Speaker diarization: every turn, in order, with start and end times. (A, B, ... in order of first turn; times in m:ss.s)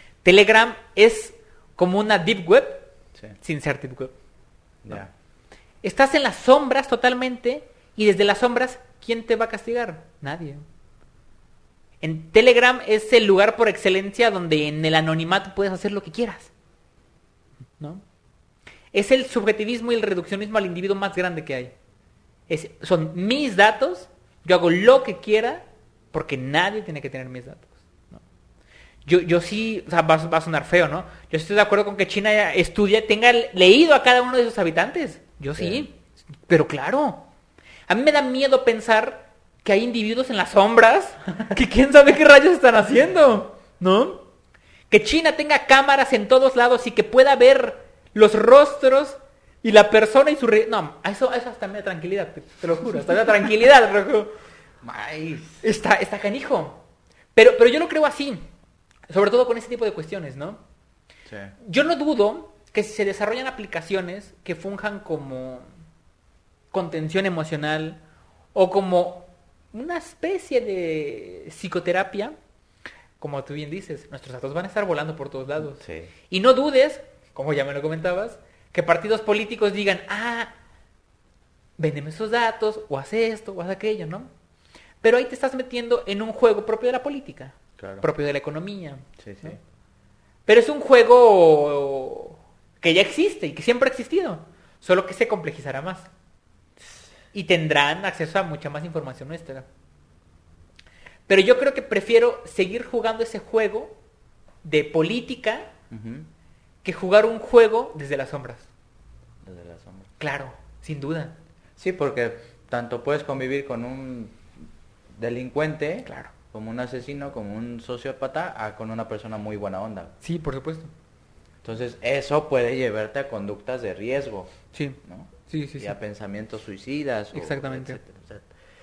0:00.2-0:02.9 A
0:03.4-0:04.1 A
0:04.8-0:05.1 B
0:05.8-0:10.6 A
0:12.0-0:16.5 A
0:18.9-0:21.7 A
0:22.5-0:28.2 A
0:29.1-0:36.0 A
0:35.6-0:35.8 B
0:36.5-0:37.3 A
0:37.9-0:44.3 A
0:44.9-0:54.3 A
0:54.8-0:55.6 B
0:55.6-0:56.8 A
0:57.4-0:58.5 A
0:59.1-1:00.6 A
1:01.3-1:01.6 B
1:01.6-1:05.7 A
1:06.7-1:08.0 A
1:08.5-1:12.4 A
1:13.2-1:20.6 A
1:15.8-1:16.1 B
1:21.8-1:24.3 A
1:25.0-1:29.0 A
1:27.8-1:28.1 B
1:29.2-1:29.6 B
1:30.5-1:36.1 A
1:37.3-1:39.7 A
1:41.3-1:44.0 A
1:44.6-1:45.7 A
1:45.9-1:46.3 B
1:46.8-1:48.7 A
1:49.4-1:50.1 B
1:50.2-1:51.4 A
1:51.8-1:54.5 B
1:55.2-2:00.1 B
1:56.1-1:56.3 A
2:00.2-2:00.9 A
2:01.6-2:04.5 B
2:04.7-2:06.0 A
2:05.0-2:08.5 B
2:07.3-2:08.0 A